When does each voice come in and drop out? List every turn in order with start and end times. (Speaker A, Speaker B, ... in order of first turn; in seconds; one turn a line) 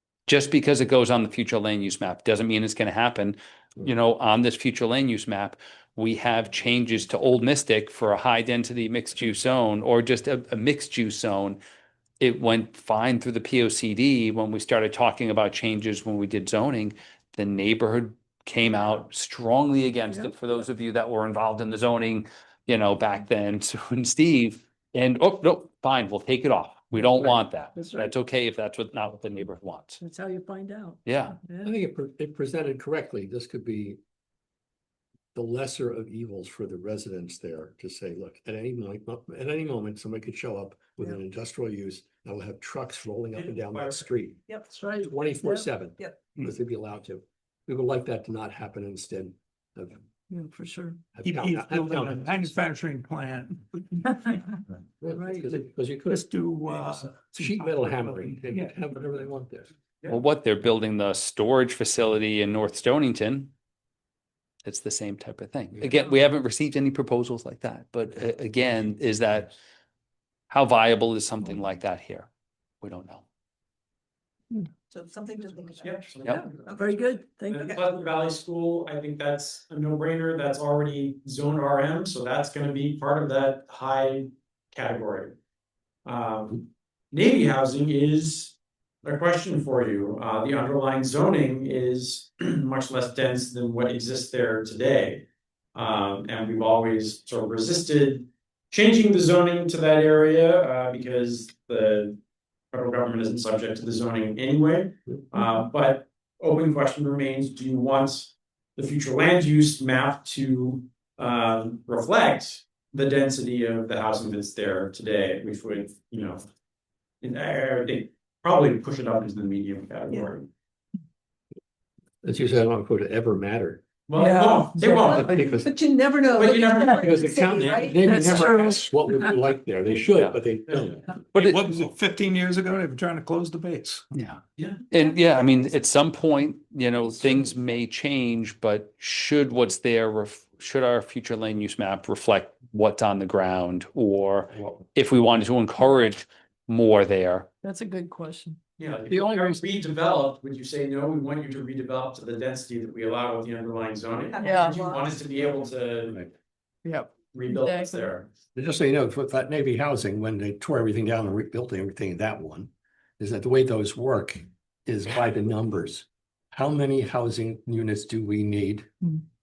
Speaker A: 0.3-11.6
Speaker A: 12.2-30.0
Speaker B: 27.0-28.1
Speaker B: 30.0-31.7
Speaker A: 31.1-31.4
Speaker C: 31.6-34.0
Speaker C: 35.4-44.4
Speaker D: 43.3-44.0
Speaker B: 44.7-45.7
Speaker C: 45.0-50.0
Speaker B: 50.3-51.0
Speaker C: 51.1-52.6
Speaker E: 51.2-54.3
Speaker C: 55.0-59.7
Speaker B: 55.1-55.5
Speaker E: 56.1-58.8
Speaker A: 60.1-63.5
Speaker A: 64.7-69.5
Speaker A: 70.5-72.3
Speaker A: 72.8-73.2
Speaker F: 74.9-77.0
Speaker D: 75.8-76.9
Speaker B: 76.3-77.8
Speaker D: 77.5-85.3
Speaker D: 86.0-95.2
Speaker D: 95.8-102.2
Speaker D: 102.7-116.4
Speaker D: 117.2-120.5
Speaker C: 122.2-123.8
Speaker D: 124.1-125.4
Speaker B: 124.2-125.0
Speaker F: 124.8-128.5
Speaker C: 125.2-125.7
Speaker D: 126.3-127.4
Speaker C: 127.0-131.2
Speaker B: 128.1-129.3
Speaker E: 131.3-134.1
Speaker A: 131.3-131.7
Speaker A: 134.1-147.5
Speaker C: 144.5-144.8
Speaker B: 147.6-148.6
Speaker D: 148.8-156.2
Speaker C: 149.1-149.6
Speaker F: 154.3-155.1
Speaker B: 154.4-154.8
Speaker B: 156.8-158.1
Speaker D: 157.3-158.3
Speaker C: 158.6-168.9